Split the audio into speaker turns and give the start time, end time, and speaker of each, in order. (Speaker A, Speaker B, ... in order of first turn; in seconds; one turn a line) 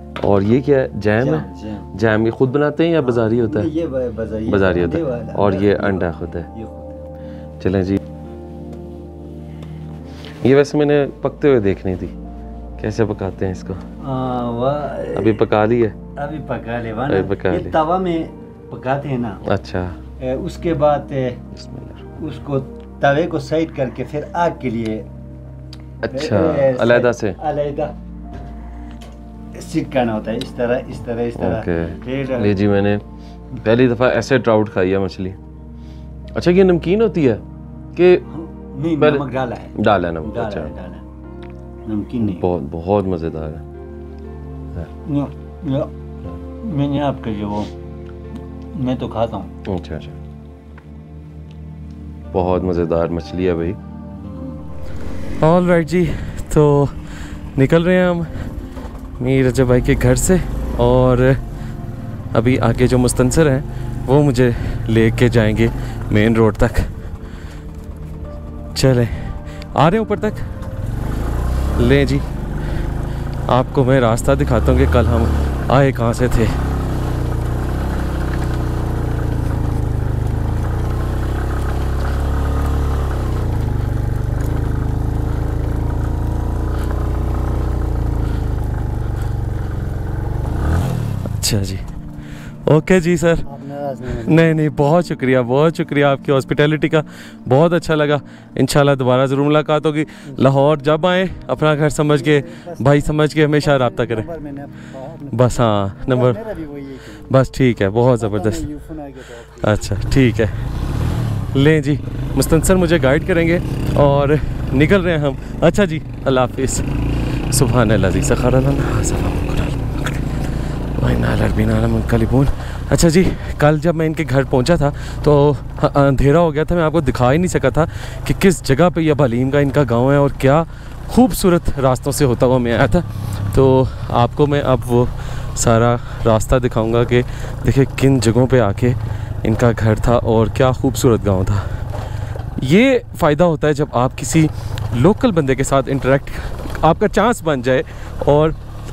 Speaker A: 0.2-3.7
Speaker B: 1.2-1.9
Speaker B: 3.0-7.0
Speaker A: 4.5-6.5
Speaker A: 7.6-8.0
Speaker A: 10.4-12.1
Speaker A: 12.8-13.8
Speaker B: 14.0-15.4
Speaker A: 15.1-15.9
Speaker B: 16.1-19.4
Speaker A: 17.1-17.8
Speaker A: 19.4-20.0
Speaker B: 20.2-21.4
Speaker A: 21.5-22.1
Speaker B: 22.2-25.1
Speaker A: 26.0-27.4
Speaker B: 26.0-27.9
Speaker B: 29.5-32.6
Speaker A: 31.4-33.0
Speaker A: 33.6-35.4
Speaker A: 36.3-37.4
Speaker A: 37.9-38.2
Speaker B: 38.3-41.0
Speaker A: 39.0-40.7
Speaker B: 41.8-42.5
Speaker A: 42.2-43.6
Speaker B: 45.0-45.9
Speaker B: 46.6-47.7
Speaker B: 48.7-49.5
Speaker A: 49.6-50.2
Speaker A: 52.3-53.8
Speaker B: 54.1-54.6
Speaker A: 55.4-57.0
Speaker A: 57.5-58.3
Speaker A: 59.2-61.4
Speaker A: 62.3-66.9
Speaker A: 68.7-70.5
Speaker A: 71.8-72.2
Speaker A: 73.5-76.5
Speaker A: 91.4-91.8
Speaker A: 92.7-93.5
Speaker B: 93.4-94.5
Speaker A: 94.1-104.3
Speaker B: 102.1-105.4
Speaker A: 105.3-106.4
Speaker B: 106.0-107.4
Speaker A: 107.3-108.7
Speaker B: 108.2-110.0
Speaker A: 109.6-110.6
Speaker A: 111.5-116.9
Speaker A: 117.5-120.2
Speaker A: 121.0-141.7
Speaker A: 142.6-148.6